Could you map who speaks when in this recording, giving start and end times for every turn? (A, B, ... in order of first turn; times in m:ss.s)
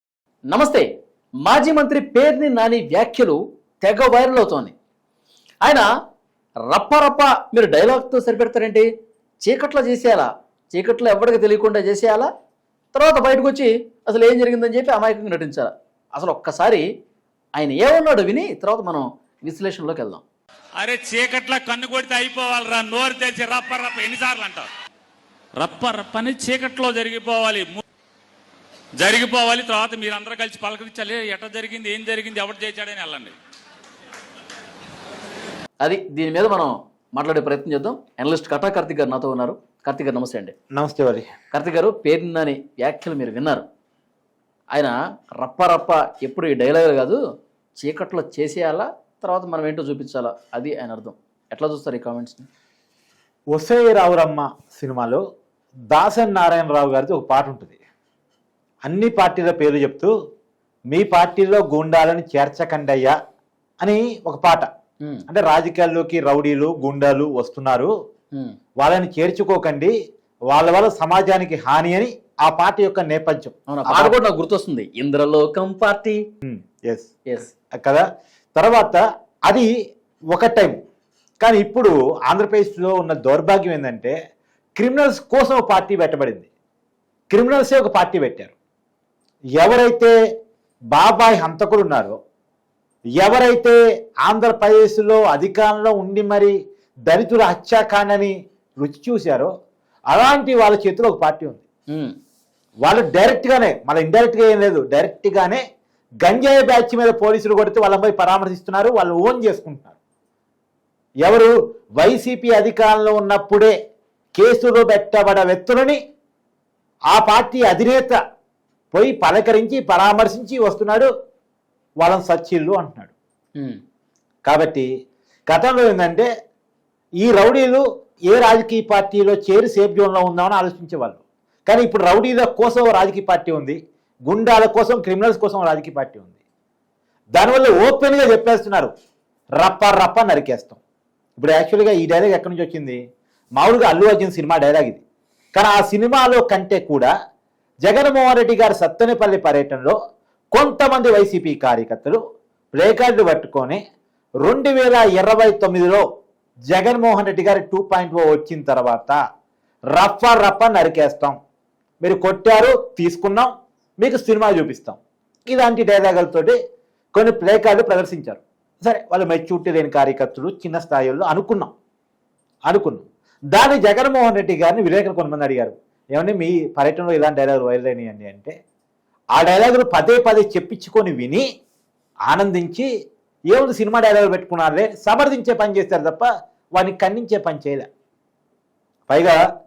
0:00.5-0:00.9 A
0:01.4-0:04.7 A
0:06.7-0:08.9 A
0:09.4-0:12.3 A
0:12.9-0:16.8 A
0:17.6-0:20.2 A
0:20.8-0:24.7 B
0:25.6-0:27.8 B
0:29.0-0:33.3 B
0:35.8-0:40.5 A
0:40.7-0:41.3 C
0:41.5-0:43.6 A
0:44.7-0:47.2 A
0:47.8-0:52.5 A
0:53.5-0:55.2 C
0:55.9-0:57.8 C
0:58.8-1:00.1 C
1:00.9-1:03.2 C
1:03.8-1:04.7 C
1:05.3-1:07.9 C
1:08.8-1:09.9 C
1:10.5-1:14.2 C
1:13.7-1:16.2 A
1:16.4-1:17.1 C
1:17.8-1:18.0 C
1:18.6-1:19.7 C
1:20.3-1:20.8 C
1:21.4-1:24.1 C
1:24.8-1:26.5 C
1:27.3-1:28.5 C
1:29.6-1:30.1 C
1:30.9-1:32.2 C
1:33.2-1:36.5 C
1:37.1-1:39.5 C
1:40.1-1:41.6 C
1:42.8-1:45.6 C
1:46.2-1:50.0 C
1:51.2-1:53.7 C
1:54.4-1:56.0 C
1:57.1-1:58.2 C
1:58.9-2:01.1 C
2:02.0-2:03.1 C
2:04.4-2:04.9 C
2:05.5-2:06.3 C
2:07.2-2:16.4 C
2:17.4-2:18.9 C
2:19.6-2:20.8 C
2:21.4-2:23.0 C
2:23.6-2:25.0 C
2:25.6-2:27.1 C
2:27.8-2:30.0 C
2:30.5-2:32.2 C
2:32.7-2:33.8 C
2:34.4-2:36.0 C
2:36.7-2:39.2 C
2:39.9-2:41.4 C
2:42.0-2:46.6 C
2:47.2-2:51.7 C
2:52.7-2:58.5 C
2:59.3-3:01.4 C
3:02.3-3:02.9 C
3:03.5-3:07.9 C
3:09.1-3:09.4 C